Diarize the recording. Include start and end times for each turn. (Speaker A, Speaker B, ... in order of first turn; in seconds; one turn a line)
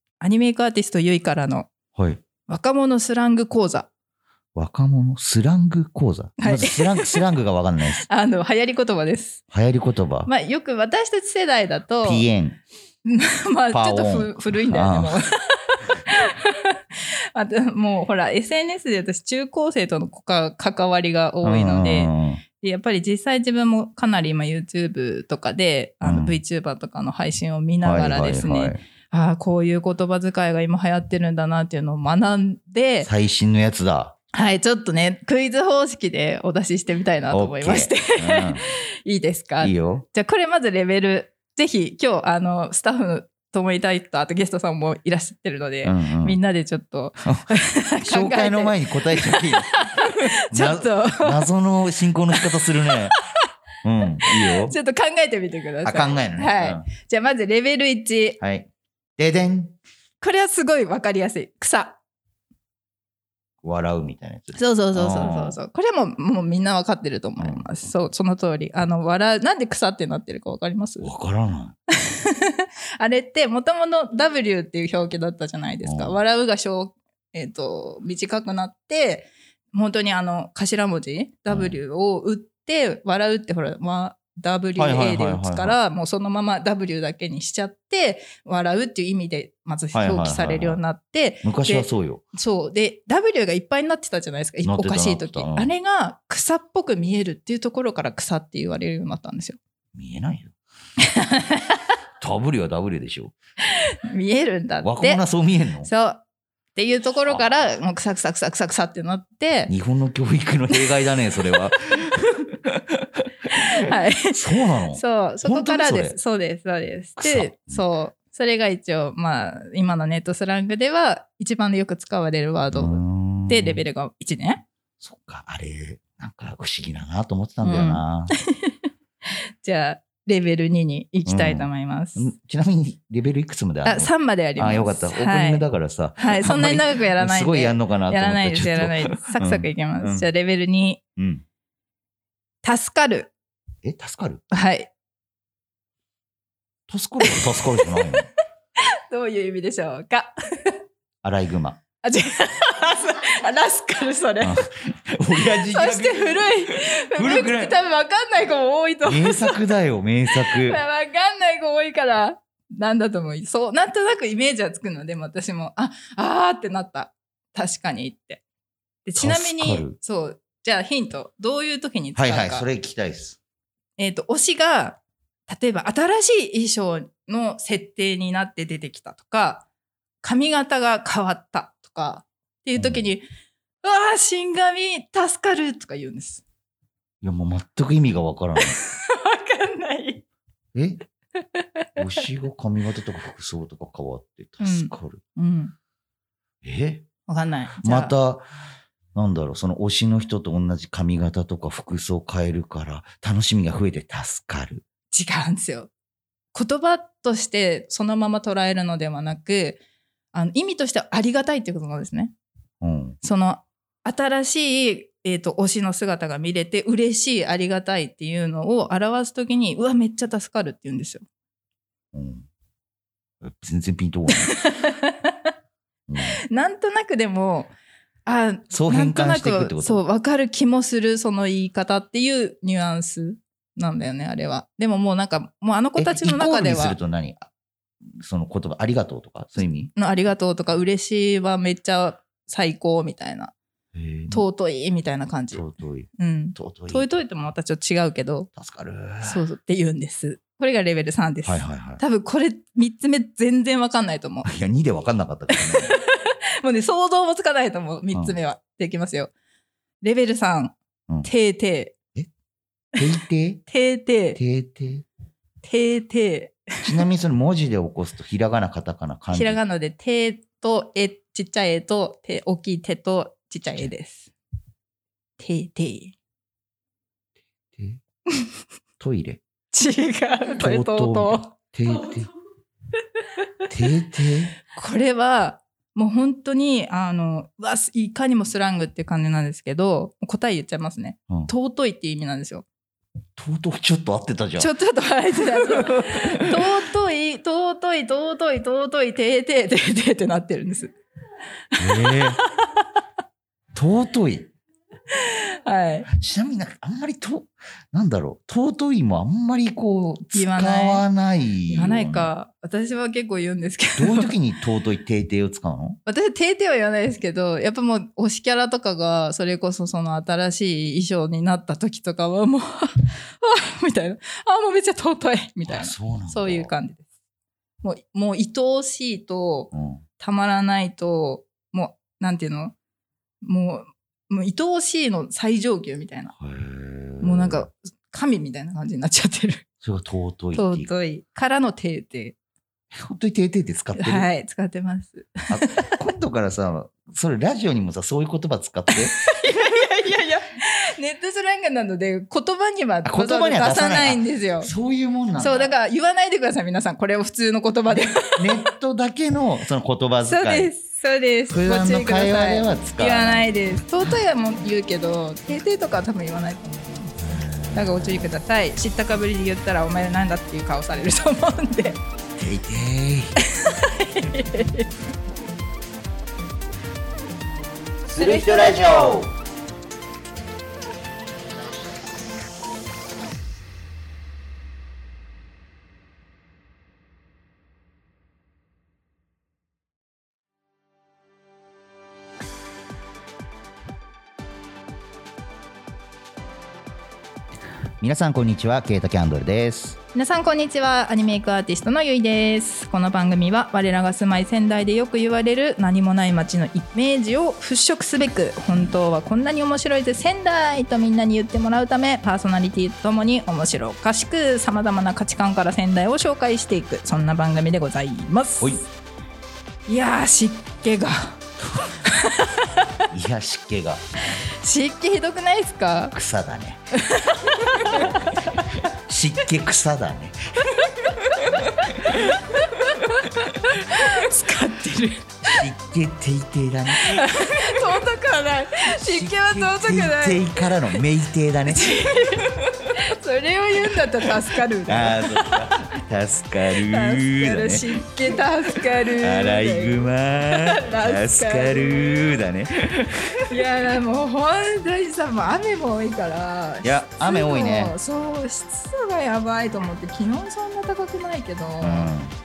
Speaker A: 0.2-1.7
Speaker B: 1.9-2.2
Speaker A: 2.5-3.9
Speaker B: 4.5-8.1
Speaker A: 6.4-7.2
Speaker A: 8.1-9.4
Speaker B: 9.5-10.3
Speaker A: 10.3-12.3
Speaker B: 12.0-12.6
Speaker A: 13.1-33.1
Speaker B: 13.7-15.2
Speaker B: 21.4-22.4
Speaker B: 26.0-26.4
Speaker B: 27.8-28.8
Speaker B: 33.0-34.1
Speaker A: 34.3-51.5
Speaker B: 37.3-38.6
Speaker B: 39.6-40.0
Speaker B: 45.8-46.4
Speaker B: 47.2-47.5
Speaker B: 48.0-53.1
Speaker B: 53.8-54.8
Speaker A: 54.3-58.4
Speaker B: 55.8-56.9
Speaker B: 58.4-59.8
Speaker A: 60.2-62.0
Speaker B: 63.6-65.6
Speaker A: 64.5-71.1
Speaker B: 67.4-67.7
Speaker B: 71.0-71.8
Speaker A: 72.0-99.6
Speaker B: 75.8-76.2
Speaker B: 81.5-81.8
Speaker B: 84.8-85.8
Speaker B: 89.9-90.8
Speaker B: 91.4-92.2
Speaker B: 94.6-95.7
Speaker B: 100.0-100.5
Speaker A: 101.0-101.8
Speaker B: 102.2-103.3
Speaker A: 103.7-105.2
Speaker B: 104.8-105.9
Speaker A: 105.8-106.2
Speaker A: 106.8-109.7
Speaker B: 109.7-113.1
Speaker A: 113.5-114.4
Speaker B: 114.3-116.2
Speaker A: 114.9-124.7
Speaker B: 117.2-117.8
Speaker B: 122.7-123.8
Speaker B: 125.0-128.3
Speaker A: 127.6-132.3
Speaker B: 131.2-140.3
Speaker A: 133.8-135.7
Speaker A: 136.2-141.0
Speaker B: 141.2-141.4
Speaker A: 142.6-143.3
Speaker B: 143.8-144.4
Speaker A: 144.5-144.9
Speaker B: 146.9-148.3
Speaker A: 148.8-150.8
Speaker B: 151.2-151.8
Speaker A: 152.0-154.6
Speaker B: 154.4-157.8
Speaker A: 155.4-159.6
Speaker B: 159.1-160.8
Speaker A: 160.3-168.4
Speaker A: 169.1-172.7
Speaker B: 169.2-170.0
Speaker B: 172.2-173.4
Speaker A: 174.0-179.7
Speaker A: 180.2-183.3
Speaker B: 182.8-183.0
Speaker A: 183.8-186.4
Speaker B: 187.2-188.8
Speaker A: 188.6-190.2
Speaker B: 190.7-191.0
Speaker A: 191.4-192.0
Speaker B: 192.0-195.2
Speaker A: 194.6-195.7
Speaker B: 196.6-197.1
Speaker A: 197.3-198.1
Speaker B: 197.8-198.5
Speaker B: 199.1-204.8
Speaker A: 205.1-205.9
Speaker A: 206.5-209.8
Speaker A: 210.3-212.3
Speaker B: 212.8-213.2
Speaker A: 213.2-221.2
Speaker B: 222.1-222.5
Speaker B: 223.4-224.5
Speaker A: 224.3-225.5
Speaker B: 226.1-226.4
Speaker A: 226.2-227.7
Speaker A: 228.3-237.0
Speaker B: 228.7-230.0
Speaker B: 236.0-237.5
Speaker B: 238.2-239.9
Speaker A: 239.9-243.5
Speaker B: 243.9-244.4
Speaker A: 244.3-245.6
Speaker B: 245.5-247.1
Speaker A: 246.2-248.5
Speaker B: 248.6-249.4
Speaker A: 249.2-254.5
Speaker B: 251.4-252.0
Speaker B: 254.4-256.0
Speaker A: 255.5-259.3
Speaker A: 260.0-261.9
Speaker B: 263.0-263.6
Speaker A: 263.7-264.4
Speaker B: 264.4-265.1
Speaker A: 265.6-267.1
Speaker B: 266.8-269.6
Speaker A: 269.3-274.3
Speaker A: 275.4-276.1
Speaker B: 277.7-278.0
Speaker B: 279.0-279.4
Speaker A: 279.7-281.5
Speaker B: 280.6-282.3
Speaker B: 283.7-284.6
Speaker A: 284.7-292.6
Speaker B: 293.4-294.7
Speaker A: 294.6-300.9
Speaker B: 295.5-296.8
Speaker A: 301.7-302.9
Speaker B: 301.8-302.4
Speaker B: 303.7-304.5
Speaker A: 305.1-306.1
Speaker B: 306.1-312.3
Speaker A: 310.3-311.1
Speaker A: 311.7-314.3
Speaker B: 314.0-316.0
Speaker A: 316.1-327.0
Speaker B: 325.7-326.7
Speaker A: 327.8-332.7
Speaker B: 329.7-330.0
Speaker A: 333.4-336.3
Speaker B: 336.3-337.7
Speaker A: 337.2-339.6
Speaker B: 339.8-340.9
Speaker A: 340.5-342.4
Speaker B: 342.9-344.3
Speaker A: 344.0-346.0
Speaker B: 345.5-349.2
Speaker A: 348.9-354.7
Speaker B: 353.0-355.7
Speaker A: 355.4-358.7
Speaker B: 357.9-360.7
Speaker A: 360.2-372.0
Speaker B: 361.5-363.5
Speaker B: 367.2-368.2
Speaker B: 372.4-373.4
Speaker A: 373.4-374.9
Speaker B: 378.1-379.3
Speaker A: 378.1-379.3
Speaker B: 398.0-400.0
Speaker A: 400.1-418.8
Speaker A: 419.9-421.4
Speaker A: 422.0-423.0
Speaker B: 423.1-424.3
Speaker A: 424.6-426.1
Speaker B: 426.1-426.8
Speaker A: 426.9-428.9
Speaker B: 427.8-430.4
Speaker A: 430.8-435.6
Speaker B: 431.4-432.2
Speaker B: 435.4-437.8
Speaker A: 436.9-440.9
Speaker B: 438.9-442.9
Speaker A: 441.7-445.6
Speaker B: 444.9-447.9
Speaker A: 446.8-452.4
Speaker B: 449.0-453.5
Speaker A: 453.5-462.1
Speaker B: 456.8-458.0
Speaker B: 461.8-462.4